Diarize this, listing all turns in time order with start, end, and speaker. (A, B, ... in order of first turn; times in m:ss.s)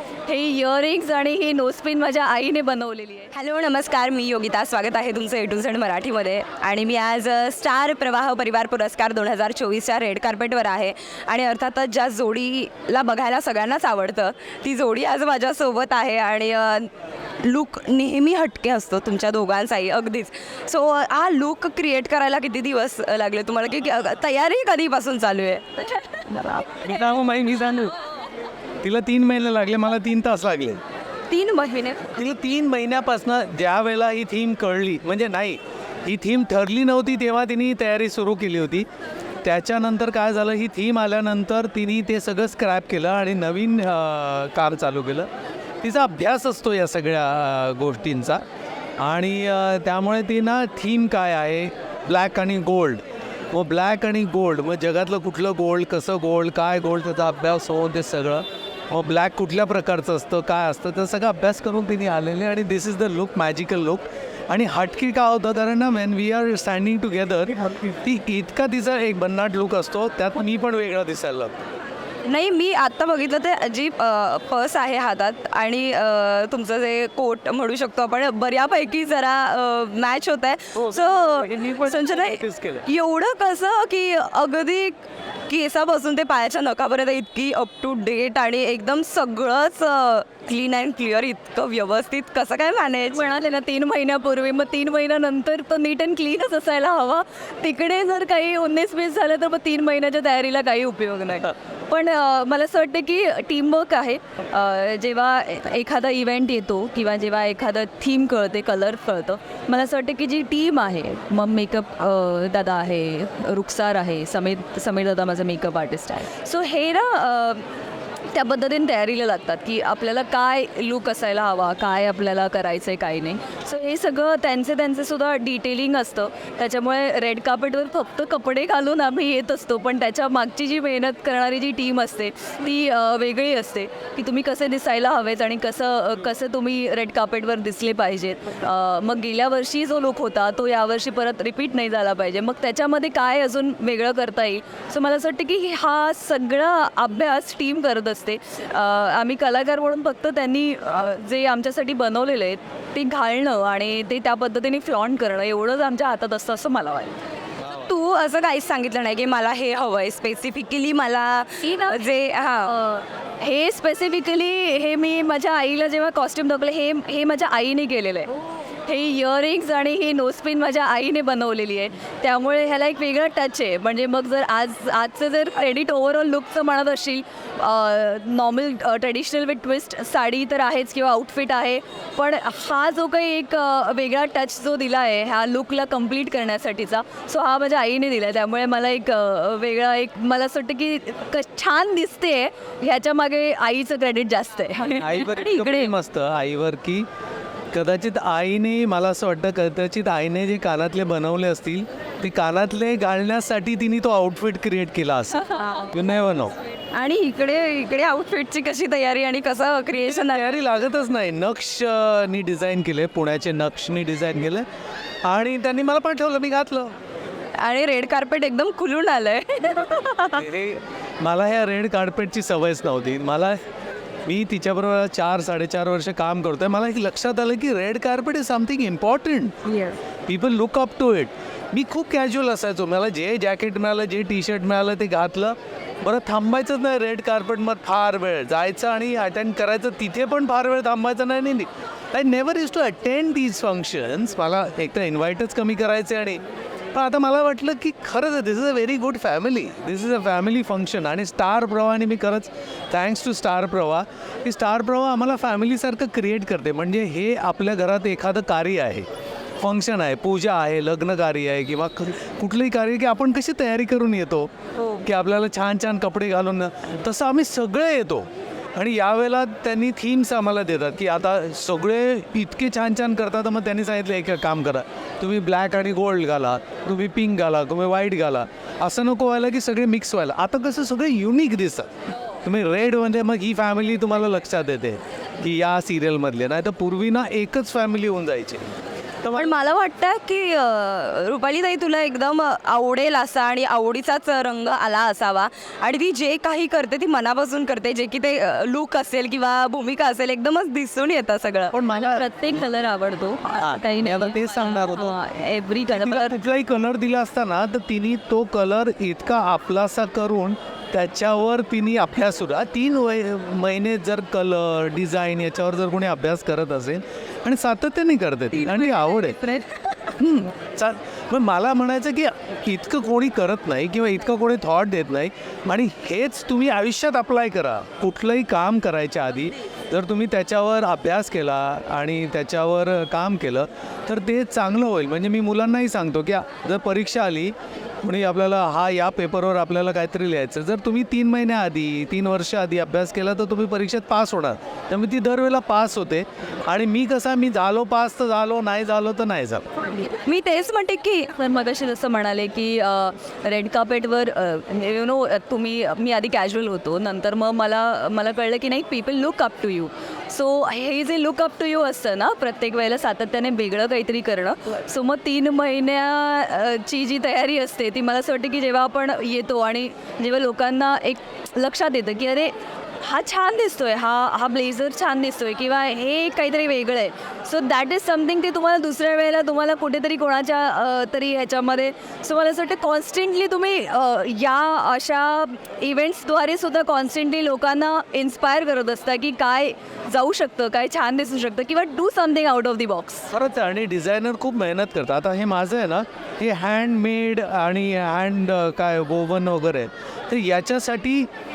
0:00.3-0:03.3 A
0:03.3-0:26.8 B
0:26.8-0:27.9 C
0:28.8-0:30.8 C
0:31.3-0:32.1 B
0:32.1-0:38.9 C
0:39.4-0:45.3 C
0:45.8-0:48.4 C
0:49.0-1:11.6 C
1:12.2-1:33.2 B
1:20.8-1:22.8 C
1:33.1-1:57.7 A
1:58.3-2:37.2 A
2:37.6-2:42.7 B
2:41.6-2:42.0 A
2:42.7-2:48.3 A
2:48.9-3:15.9 A
3:14.9-3:17.1 C
3:17.7-3:26.6 C
3:25.5-3:25.9 B
3:26.9-3:30.4 B
3:30.1-3:34.6 C
3:35.2-3:36.9 C
3:37.6-3:40.4 B
3:40.3-3:43.6 C
3:44.2-4:06.4 C
4:06.9-4:19.1 C
4:19.6-4:41.9 C
4:42.4-4:49.5 C
4:49.3-5:01.7 B
5:01.7-5:02.3 C
5:02.0-5:06.4 A
5:03.5-5:05.2 C
5:05.9-5:19.4 C
5:18.5-5:20.1 B
5:20.1-5:49.7 C
5:50.0-5:51.3 B
5:51.3-6:33.3 A
6:33.3-6:41.3 C